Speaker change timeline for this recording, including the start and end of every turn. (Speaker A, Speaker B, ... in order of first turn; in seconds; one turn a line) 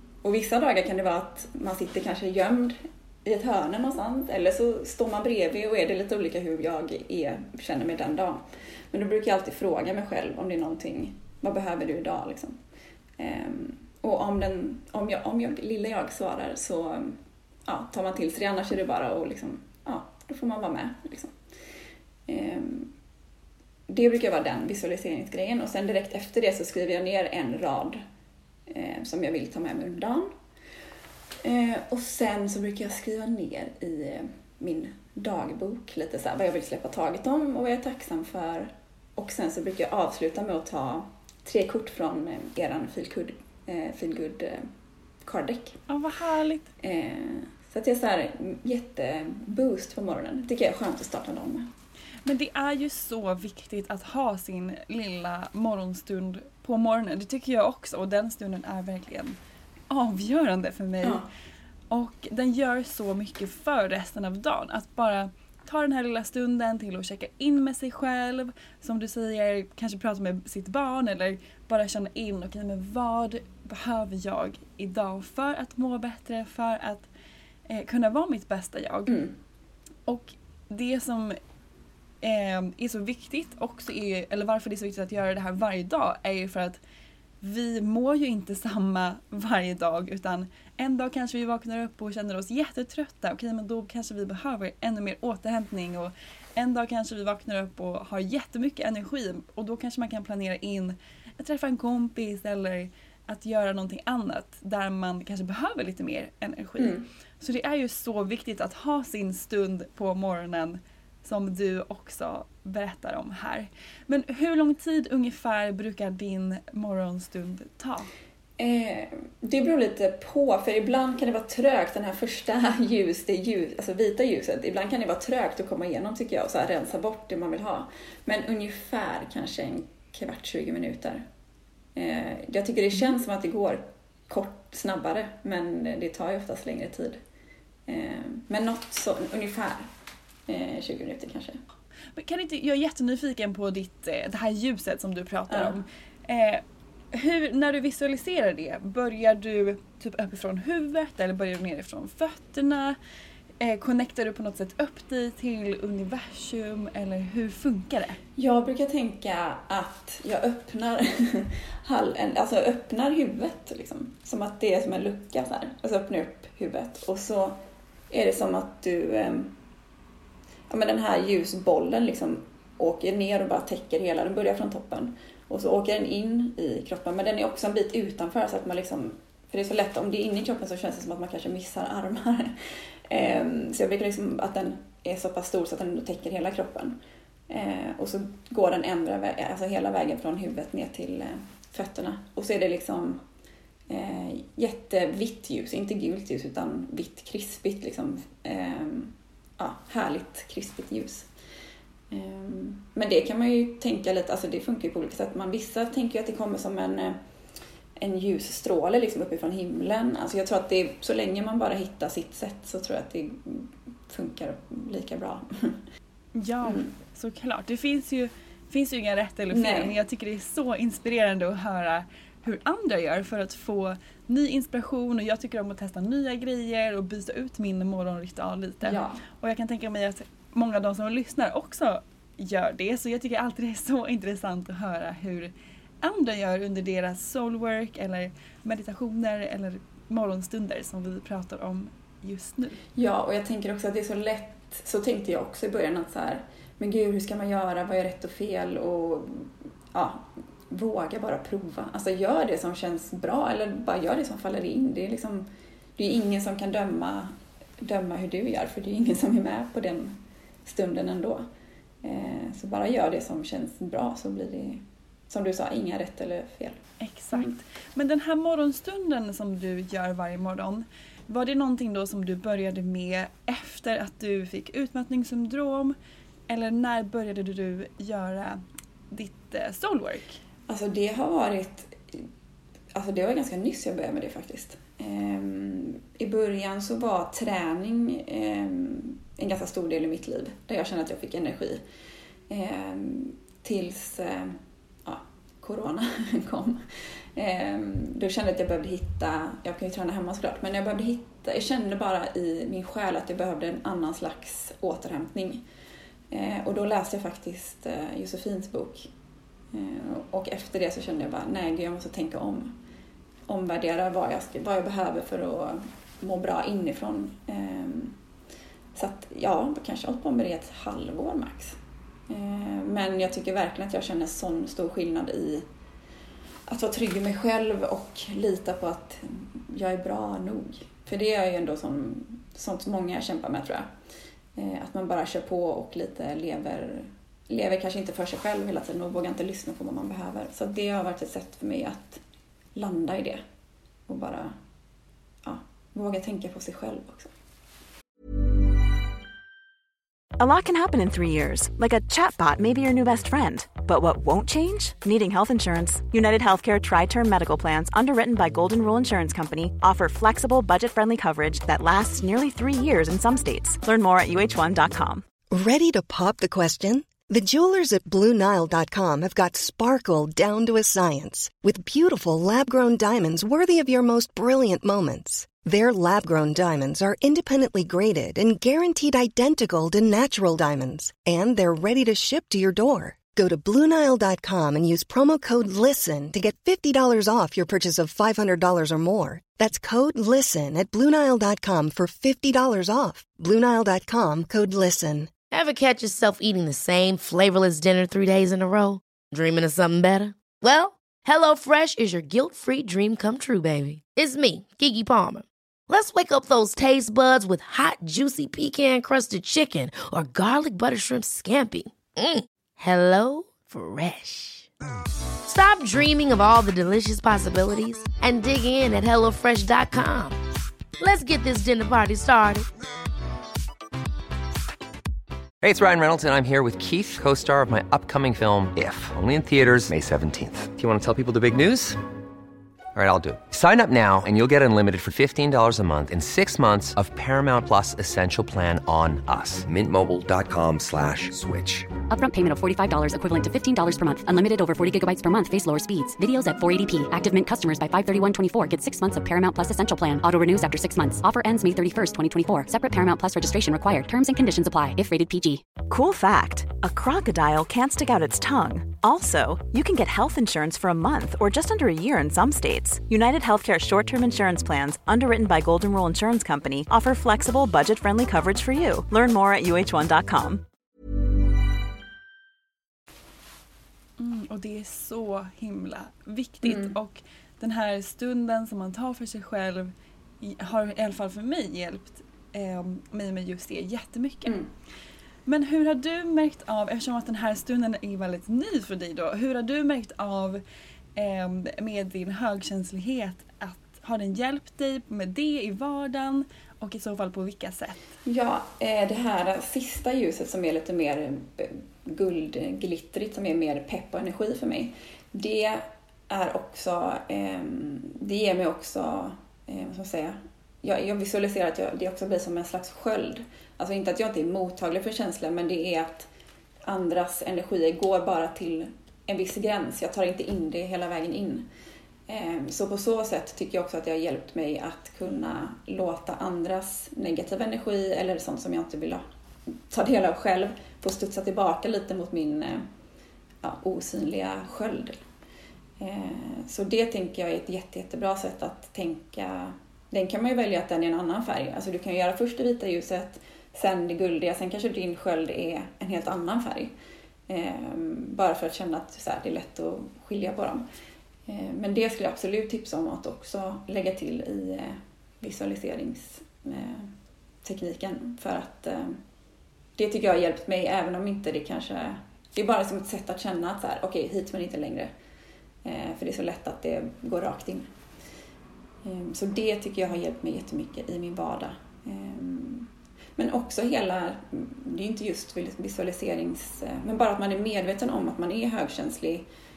Speaker A: 0.2-8.4
Speaker A: 8.9-12.6
Speaker A: 13.2-21.3
Speaker A: 22.3-22.9
Speaker A: 23.9-28.0
Speaker A: 28.7-30.3
Speaker A: 31.4-44.6
Speaker A: 45.2-45.8
Speaker B: 45.9-46.7
Speaker A: 46.8-51.7
Speaker B: 52.2-59.4
Speaker B: 59.9-61.2
Speaker B: 61.9-77.1
Speaker B: 77.7-79.2
Speaker A: 79.1-79.3
Speaker B: 80.1-81.3
Speaker B: 82.2-86.8
Speaker B: 87.4-118.1
Speaker A: 106.8-107.0
Speaker A: 118.6-131.2
Speaker A: 131.9-137.2
Speaker A: 137.9-139.9
Speaker A: 140.5-141.6
Speaker B: 142.1-153.0
Speaker A: 145.5-145.8
Speaker B: 153.6-158.2
Speaker A: 158.4-167.6
Speaker A: 168.1-169.5
Speaker A: 170.7-182.5
Speaker A: 183.1-187.0
Speaker A: 187.5-193.2
Speaker A: 193.9-201.3
Speaker A: 202.1-207.2
Speaker A: 208.0-215.8
Speaker B: 216.3-242.8
Speaker A: 216.6-216.9
Speaker A: 219.5-219.9
Speaker A: 228.8-229.2
Speaker A: 242.9-261.4
Speaker A: 262.0-266.8
Speaker B: 267.0-275.9
Speaker B: 276.5-278.6
Speaker B: 279.1-280.4
Speaker A: 280.7-282.3
Speaker A: 282.9-291.8
Speaker A: 292.5-296.8
Speaker A: 297.4-305.6
Speaker A: 306.3-309.1
Speaker A: 309.7-312.7
Speaker A: 313.5-318.2
Speaker A: 318.9-321.8
Speaker A: 322.3-325.6
Speaker A: 326.7-333.9
Speaker A: 334.6-342.2
Speaker A: 342.7-343.4
Speaker A: 344.1-344.5
Speaker A: 345.4-347.3
Speaker C: 350.4-365.2
Speaker D: 365.5-395.3
Speaker E: 395.5-414.7
Speaker E: 415.4-420.4
Speaker E: 421.0-422.6
Speaker F: 425.6-432.0
Speaker F: 432.9-441.9
Speaker G: 442.1-455.6
Speaker C: 455.9-470.6
Speaker B: 474.2-484.6
Speaker A: 476.6-476.9
Speaker B: 485.4-490.6
Speaker B: 491.2-498.0
Speaker A: 498.2-516.3
Speaker A: 516.9-521.7
Speaker A: 522.3-529.2
Speaker A: 529.9-532.9
Speaker A: 533.6-535.2
Speaker A: 536.0-546.9
Speaker A: 547.5-550.9
Speaker A: 551.5-557.1
Speaker A: 557.6-559.2
Speaker A: 560.0-565.1
Speaker A: 565.8-567.9
Speaker A: 569.0-579.5